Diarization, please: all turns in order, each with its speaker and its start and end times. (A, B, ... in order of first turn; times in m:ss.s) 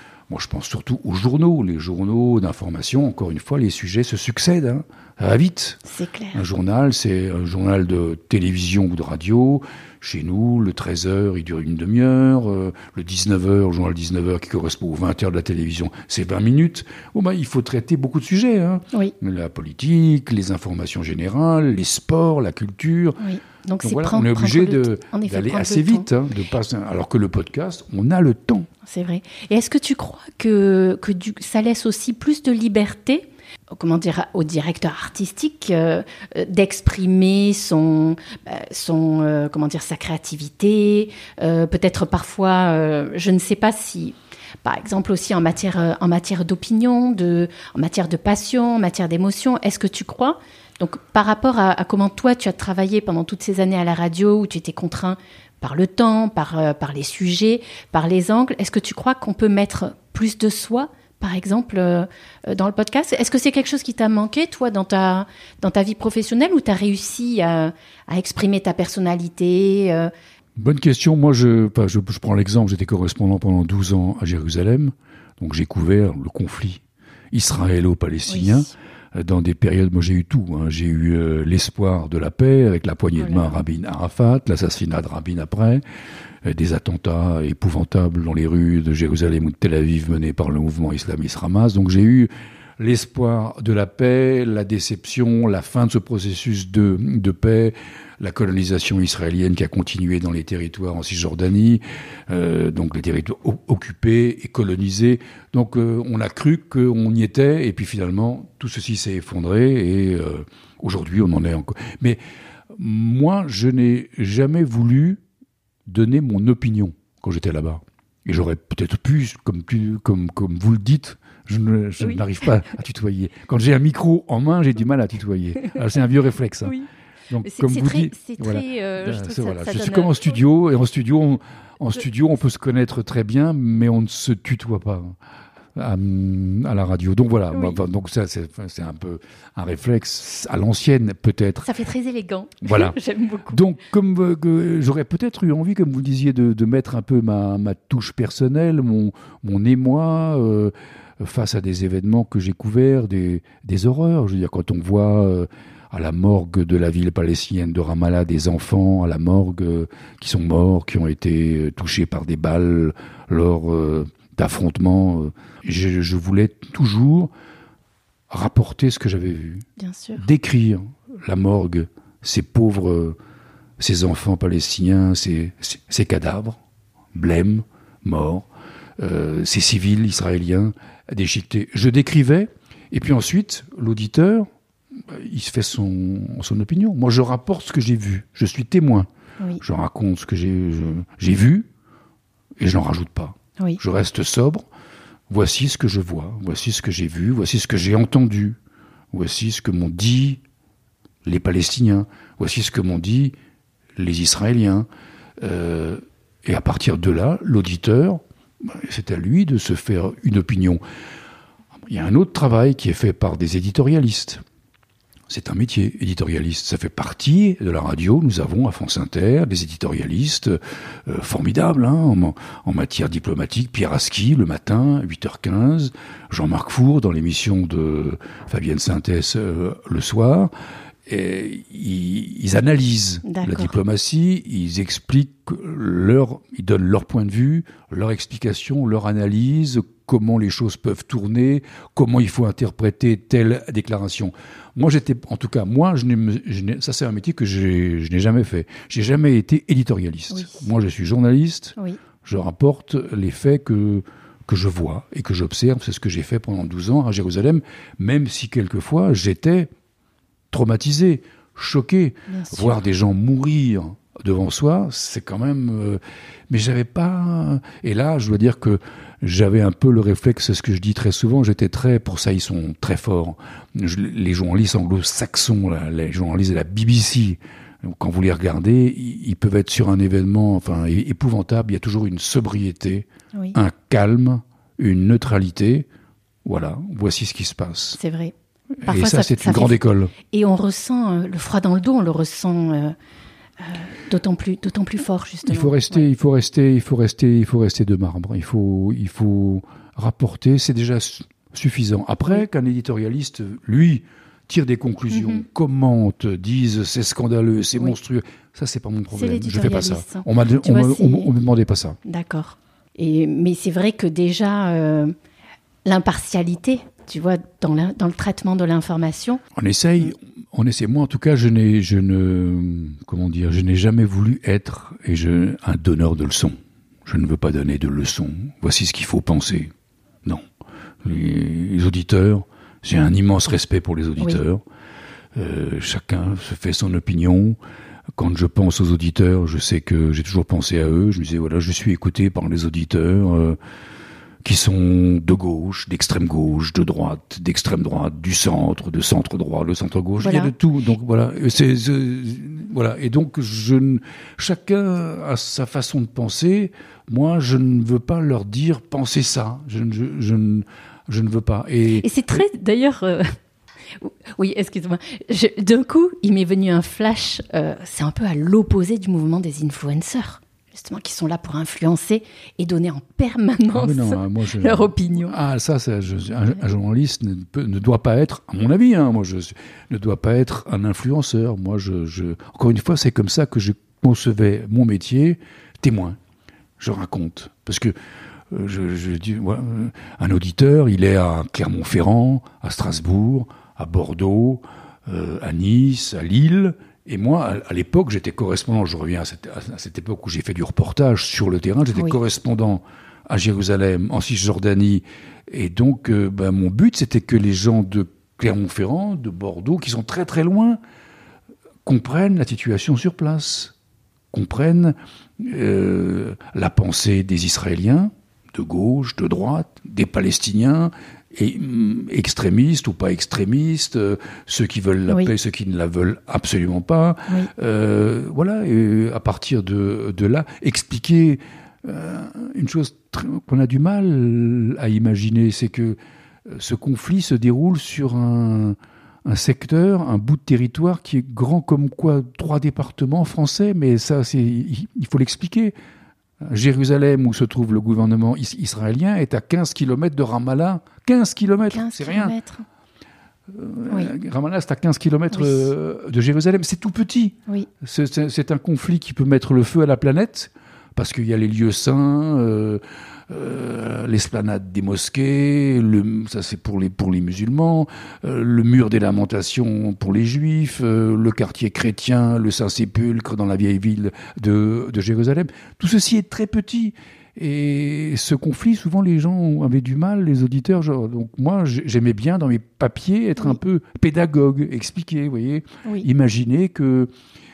0:00.3-0:05.8 A
0:05.9-0:06.4 B
0:06.3-0:23.2 A
0:23.2-0:26.1 B
0:23.8-0:28.7 A
0:28.9-1:10.1 B
1:10.6-1:25.8 A
1:18.3-1:18.7 B
1:23.2-1:23.6 B
1:26.4-1:52.2 A
1:52.7-1:55.2 A
1:55.9-2:06.8 A
2:07.3-2:15.1 A
2:07.4-2:10.4 B
2:15.8-2:21.7 A
2:17.5-2:17.8 B
2:21.6-2:23.6 B
2:22.6-2:23.0 A
2:23.5-2:47.3 A
2:48.3-2:49.6 A
2:49.8-2:50.2 B
2:50.2-2:53.2 A
2:53.8-2:56.6 A
2:57.1-2:58.5 A
2:59.0-3:04.5 A
3:05.1-3:09.1 A
3:09.6-3:11.7 A
3:12.6-3:14.6 A
3:15.3-3:18.6 A
3:19.1-3:20.4 A
3:21.2-3:23.3 A
3:24.0-3:24.9 A
3:25.4-3:30.8 A
3:31.9-3:34.4 A
3:35.3-3:50.5 A
3:51.1-4:19.7 A
3:53.2-3:53.8 B
4:10.3-4:10.6 B
4:20.5-4:45.9 A
4:22.3-4:22.8 B
4:46.4-4:48.0 A
4:48.0-4:48.3 B
4:48.8-4:50.1 A
4:48.8-4:49.8 B
4:50.3-4:52.9 B
4:53.6-4:56.1 B
4:55.4-5:12.0 A
5:05.1-5:05.4 B
5:09.1-5:11.3 B
5:12.0-5:15.1 B
5:15.8-5:19.4 B
5:19.6-5:26.5 A
5:27.0-5:29.7 A
5:31.0-5:34.6 A
5:35.4-5:37.6 A
5:38.2-5:43.6 A
5:44.4-6:02.1 A
5:50.2-5:50.5 B
6:01.9-6:03.4 B
6:04.0-6:15.4 B
6:13.7-6:26.2 A
6:26.8-6:27.9 A
6:28.5-6:50.8 A
6:51.8-6:53.7 A
6:54.3-7:25.8 A
7:26.4-7:32.3 A
7:31.7-7:32.6 B
7:33.5-8:07.1 A
7:35.3-7:35.6 B